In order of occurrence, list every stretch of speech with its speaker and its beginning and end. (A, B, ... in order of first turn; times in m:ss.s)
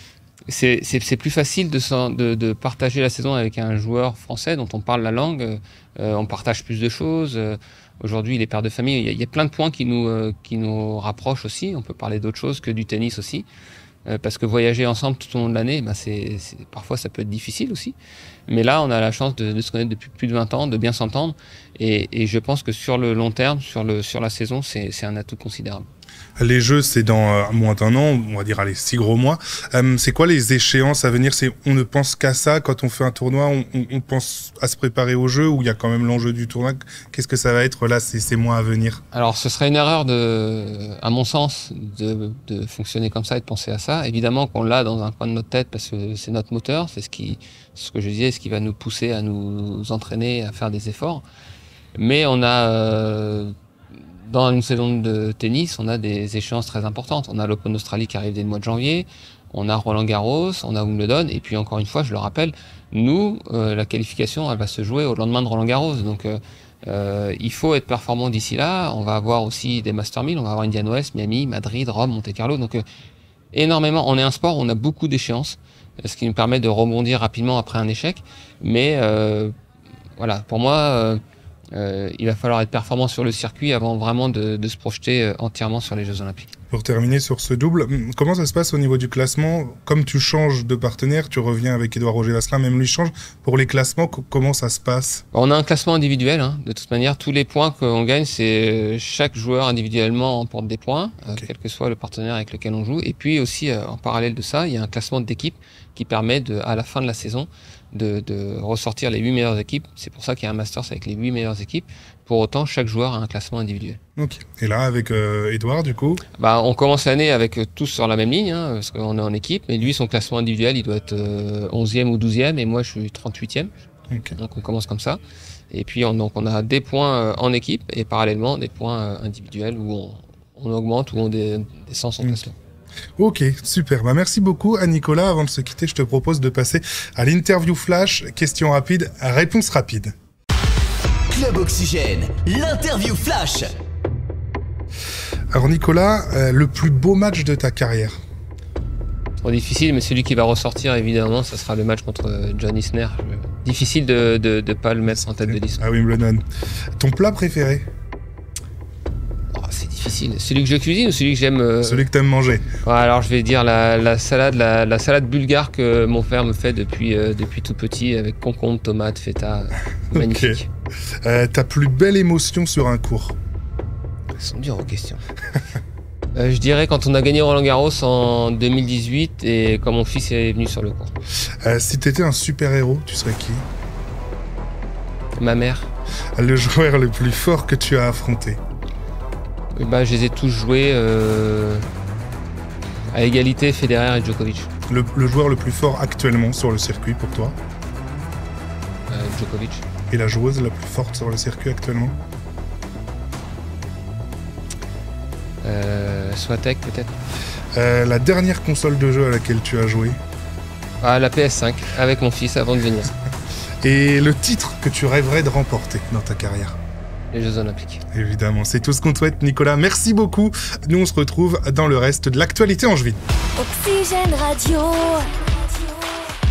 0:00.5-0:13.5 A
0:14.1-0:18.0 A
0:18.5-0:25.9 A
0:26.4-0:39.0 B
0:39.1-0:51.2 A
0:52.0-0:53.5 A
0:54.2-1:12.8 A
1:13.5-1:19.5 A
1:20.2-1:21.2 A
1:21.7-1:26.5 A
1:26.7-1:35.2 B
1:35.3-1:54.0 A
1:54.2-1:56.2 B
1:56.4-2:03.7 A
2:04.1-2:04.4 B
2:04.4-2:05.2 A
2:05.7-2:12.6 A
2:13.2-2:20.2 B
2:21.3-2:23.8 C
2:25.5-2:28.2 B
2:29.4-2:35.8 A
2:35.3-2:36.4 B
2:37.0-2:37.9 B
2:39.5-2:42.1 A
2:41.8-2:42.7 B
2:42.8-2:50.7 A
2:50.1-2:50.6 B
2:51.2-2:53.4 B
2:54.4-2:55.3 A
2:56.3-3:01.1 A
3:01.6-3:03.6 B
3:05.4-3:05.9 A
3:06.4-3:08.6 B
3:09.7-3:11.9 A
3:13.1-3:14.7 A
3:14.9-3:17.6 B
3:19.1-3:19.8 A
3:20.1-3:22.2 B
3:25.6-3:27.2 A
3:27.8-3:30.2 B
3:31.0-3:33.1 A
3:33.8-3:36.8 B
3:37.3-3:38.0 A
3:38.1-3:43.2 B
3:43.6-3:46.3 D